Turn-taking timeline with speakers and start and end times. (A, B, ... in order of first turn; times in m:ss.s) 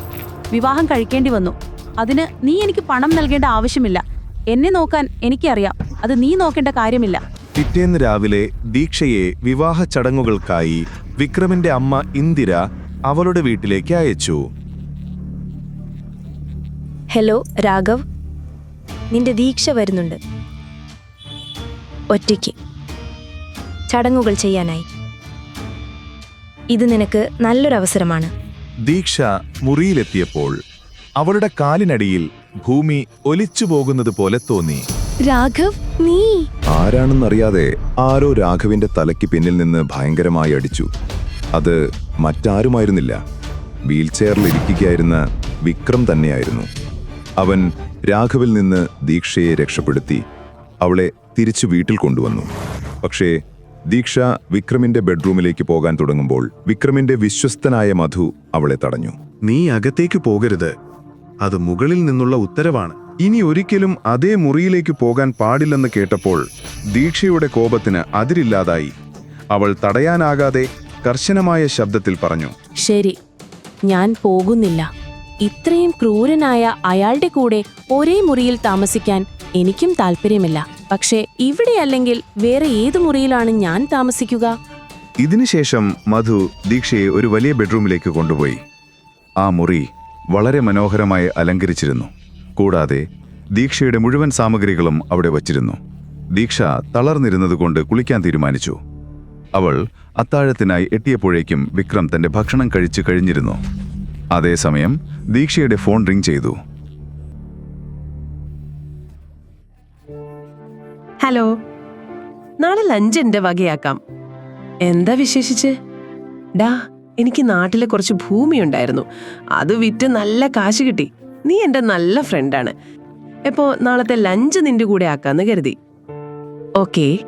0:00.5-0:07.2 A
0:07.6-0:14.4 B
0:17.1-0:18.0 C
0:19.1-0:20.2 C
0:22.1-0:22.5 C
0:23.9-0:24.8 C
0:26.7-0:28.3 C
0:28.8-0:30.5 B
0:31.2-0:34.8 B
0:36.7-0:40.9 B
0:41.5-0:43.2 B
0:43.8-0:46.7 B
0:47.4-0:50.2 B
0:50.8-0:52.5 B
0:53.0-0:53.3 B
0:53.9-1:00.7 B
1:01.4-1:06.4 B
1:06.9-1:08.9 B
1:09.5-1:12.5 B
1:12.8-1:13.2 D
1:13.8-1:14.9 D
1:15.4-1:24.5 D
1:25.2-1:28.6 B
1:29.4-1:33.0 B
1:33.6-1:35.8 B
1:36.3-1:38.8 B
1:39.5-1:43.6 B
1:44.3-1:46.6 B
1:51.2-1:51.5 E
1:52.6-1:54.0 E
1:54.9-1:55.7 E
1:56.6-1:59.0 E
1:59.6-2:02.7 E
2:03.5-2:05.8 E
2:06.8-2:07.1 E